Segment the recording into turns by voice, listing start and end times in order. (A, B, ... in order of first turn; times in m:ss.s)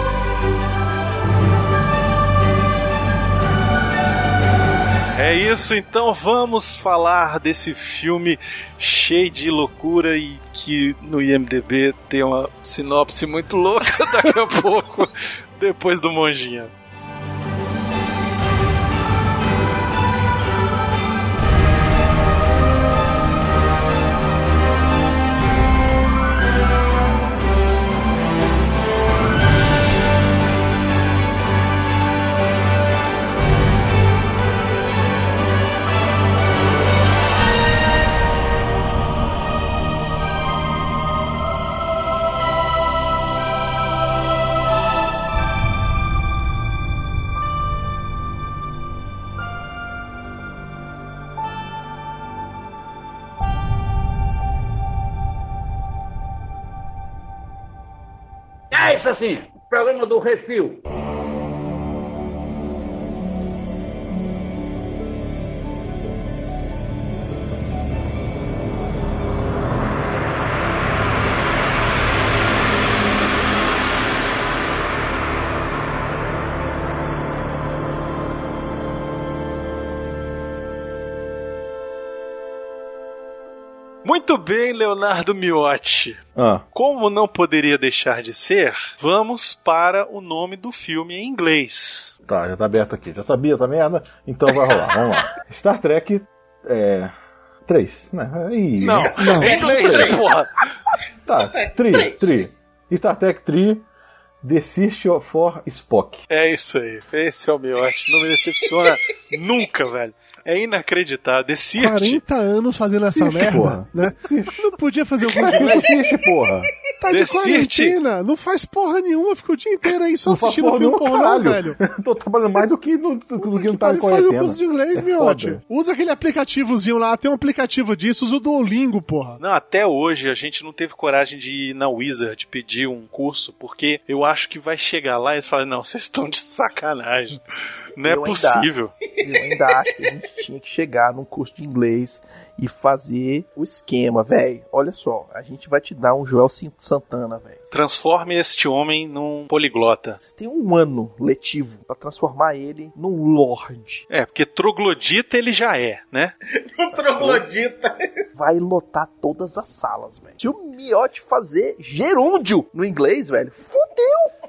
0:05.1-0:16.7 A
0:58.7-1:00.8 B
1:24.0-1:26.2 A
1:26.4-1:26.6 C
1:26.7-1:32.1 A
1:32.3-1:37.1 C
1:37.6-1:40.2 C
1:38.8-1:40.2 D
1:38.8-1:40.5 A
1:39.2-1:39.5 E
1:41.3-1:43.8 C
1:41.6-1:42.3 D
1:44.4-1:46.2 C
1:46.3-1:52.2 A
1:51.8-1:55.9 E
1:53.1-1:54.8 C
1:55.3-1:56.7 C
1:57.0-2:01.8 E
1:57.1-1:58.0 A
2:00.3-2:05.6 C
2:03.6-2:09.4 E
2:09.4-2:17.4 A
2:18.0-2:18.9 A
2:18.1-2:18.7 F
2:19.1-2:20.0 D
2:19.2-2:27.6 F
2:27.7-2:30.2 A
2:30.2-2:34.0 F
2:34.1-2:36.3 A
2:36.6-2:38.0 D
2:36.9-2:37.4 F
2:38.4-2:44.3 F